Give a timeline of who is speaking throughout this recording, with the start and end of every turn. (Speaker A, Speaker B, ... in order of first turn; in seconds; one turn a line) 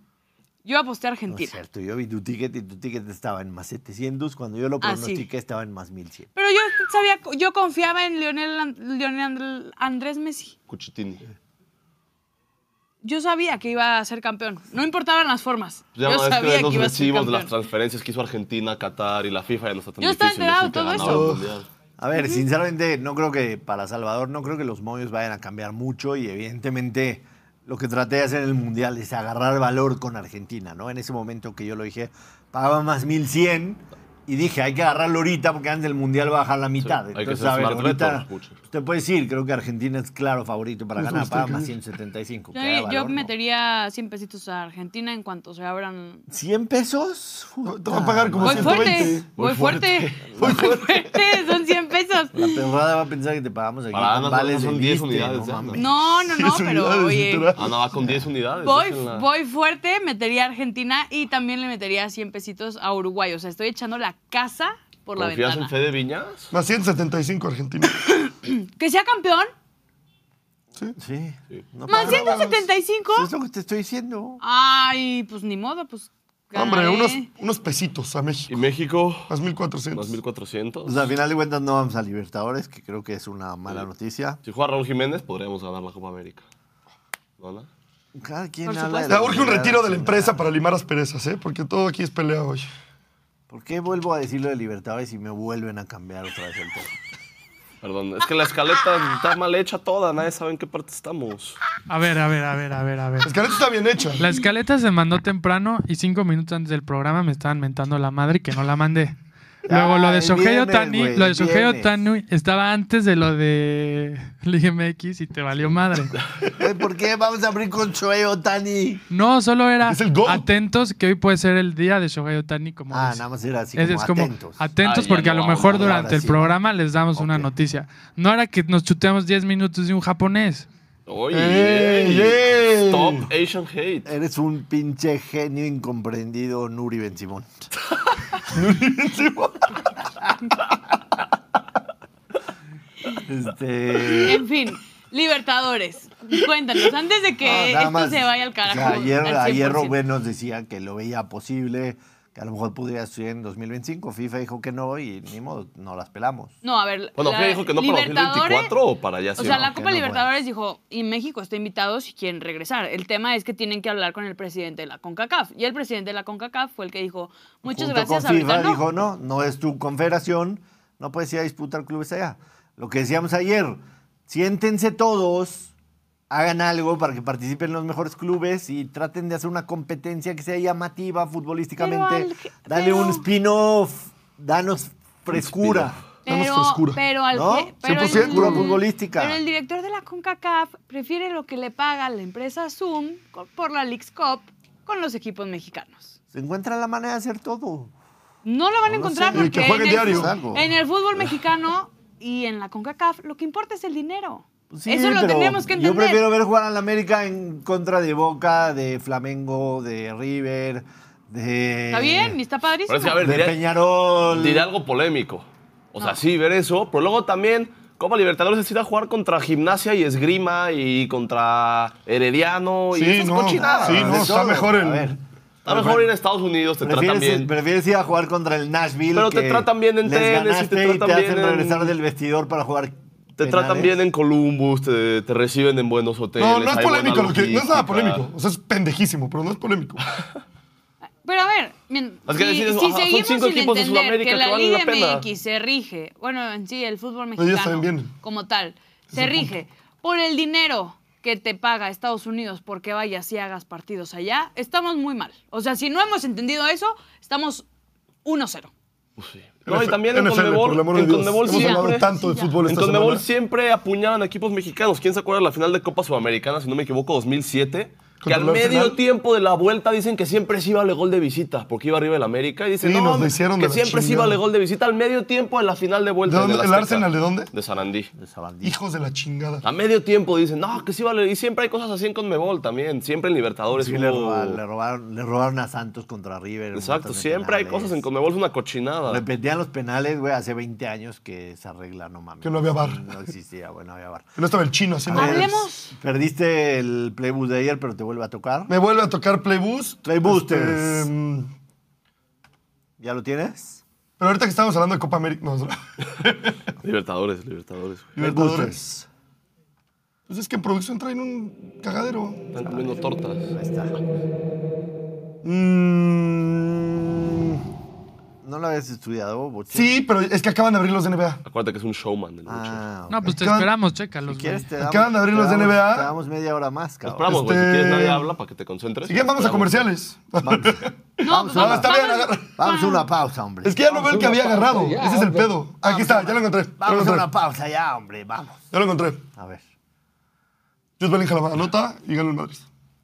Speaker A: 0.7-1.6
Speaker B: 1.3-6.3
Speaker A: 4.8-5.3
Speaker A: 6.3-10.6
Speaker C: 10.7-11.3
Speaker A: 13.0-17.5
Speaker C: 16.0-21.7
Speaker A: 20.0-21.3
Speaker D: 21.0-21.5
Speaker B: 22.0-43.3
Speaker A: 22.2-22.4
Speaker C: 36.8-38.6
Speaker D: 41.0-41.7
Speaker A: 42.5-46.3
Speaker B: 46.3-49.2
Speaker D: 47.7-49.3
Speaker A: 48.4-52.5
Speaker C: 49.4-50.2
Speaker B: 50.3-50.8
Speaker D: 50.4-51.0
Speaker B: 52.3-55.9
Speaker C: 53.9-55.8
Speaker A: 55.8-57.5
Speaker D: 56.2-57.9
Speaker C: 57.6-59.3
Speaker B: 58.0-58.3
Speaker A: 58.6-65.7
Speaker C: 65.2-66.5
Speaker D: 66.5-68.0
Speaker A: 68.0-69.5
Speaker B: 71.0-72.5
Speaker A: 71.9-73.3
Speaker D: 71.9-72.6
Speaker B: 73.2-74.4
Speaker A: 74.4-77.3
Speaker D: 76.5-78.6
Speaker C: 78.5-79.3
Speaker D: 79.3-80.2
Speaker C: 79.9-81.1
Speaker B: 80.8-84.4
Speaker C: 84.4-86.5
Speaker C: 87.4-87.7
Speaker B: 88.2-90.4
Speaker A: 88.7-89.3
Speaker D: 89.1-92.7
Speaker B: 93.5-96.9
Speaker C: 97.8-101.6
Speaker E: 101.9-103.3
Speaker D: 103.2-104.3
Speaker E: 104.2-109.2
Speaker B: 109.7-112.0
Speaker E: 109.7-116.2
Speaker B: 116.6-119.0
Speaker E: 119.1-123.2
Speaker D: 119.8-120.5
Speaker B: 122.9-124.7
Speaker E: 123.8-130.7
Speaker C: 124.8-126.1
Speaker B: 125.6-126.6
Speaker B: 127.2-127.5
Speaker C: 131.1-134.1
Speaker D: 131.3-133.3
Speaker B: 134.1-137.7
Speaker D: 138.5-139.8
Speaker B: 143.2-144.4
Speaker A: 144.2-150.0
Speaker B: 147.4-156.6
Speaker A: 156.6-158.7
Speaker C: 157.2-159.7
Speaker A: 159.4-168.8
Speaker B: 159.4-160.3
Speaker B: 167.7-175.7
Speaker B: 176.3-186.0
Speaker A: 181.8-183.2
Speaker C: 185.3-186.0
Speaker A: 186.2-196.2
Speaker D: 186.3-187.0
Speaker B: 187.3-189.4
Speaker D: 187.8-188.7
Speaker B: 196.3-197.9
Speaker A: 198.4-206.3
Speaker B: 198.8-200.7
Speaker D: 199.3-200.3
Speaker B: 204.7-212.4
Speaker A: 211.9-213.2
Speaker C: 212.9-213.6
Speaker B: 213.2-214.7
Speaker C: 214.2-224.4
Speaker D: 222.9-225.1
Speaker B: 223.4-226.1
Speaker C: 225.7-227.5
Speaker B: 226.8-233.9
Speaker C: 229.1-231.9
Speaker C: 233.4-238.3
Speaker D: 236.4-240.1
Speaker A: 241.2-257.6
Speaker C: 242.3-245.3
Speaker D: 247.4-248.1
Speaker D: 249.1-249.5
Speaker A: 258.2-258.7
Speaker C: 259.2-262.1
Speaker D: 259.7-263.2
Speaker A: 261.5-262.6
Speaker C: 262.6-278.1
Speaker D: 268.2-269.0
Speaker D: 272.8-274.4
Speaker D: 276.3-277.5
Speaker B: 278.1-278.8
Speaker D: 278.6-279.6
Speaker C: 279.6-284.6
Speaker B: 283.7-288.0
Speaker C: 286.7-289.2
Speaker B: 289.1-294.3
Speaker D: 292.4-293.1
Speaker D: 294.4-295.6
Speaker B: 295.0-298.7
Speaker A: 295.1-295.9
Speaker D: 298.7-301.5
Speaker B: 300.0-301.1
Speaker B: 303.0-303.8
Speaker D: 304.2-306.6
Speaker C: 306.8-308.2
Speaker D: 308.2-308.8
Speaker B: 308.2-309.1
Speaker D: 310.3-312.5
Speaker C: 312.5-313.5
Speaker B: 312.6-314.0
Speaker D: 315.4-317.6
Speaker B: 318.4-319.9
Speaker D: 319.7-321.4
Speaker C: 321.4-322.8
Speaker B: 322.5-323.4
Speaker E: 323.1-324.7
Speaker D: 323.3-323.7
Speaker B: 324.2-327.4
Speaker D: 324.8-326.1
Speaker C: 327.1-329.9
Speaker D: 327.3-328.3
Speaker D: 329.1-332.6
Speaker B: 330.4-331.9
Speaker A: 331.2-333.1
Speaker B: 332.6-338.7
Speaker D: 333.6-337.3
Speaker D: 338.7-339.2
Speaker B: 339.4-339.6
Speaker D: 341.0-342.6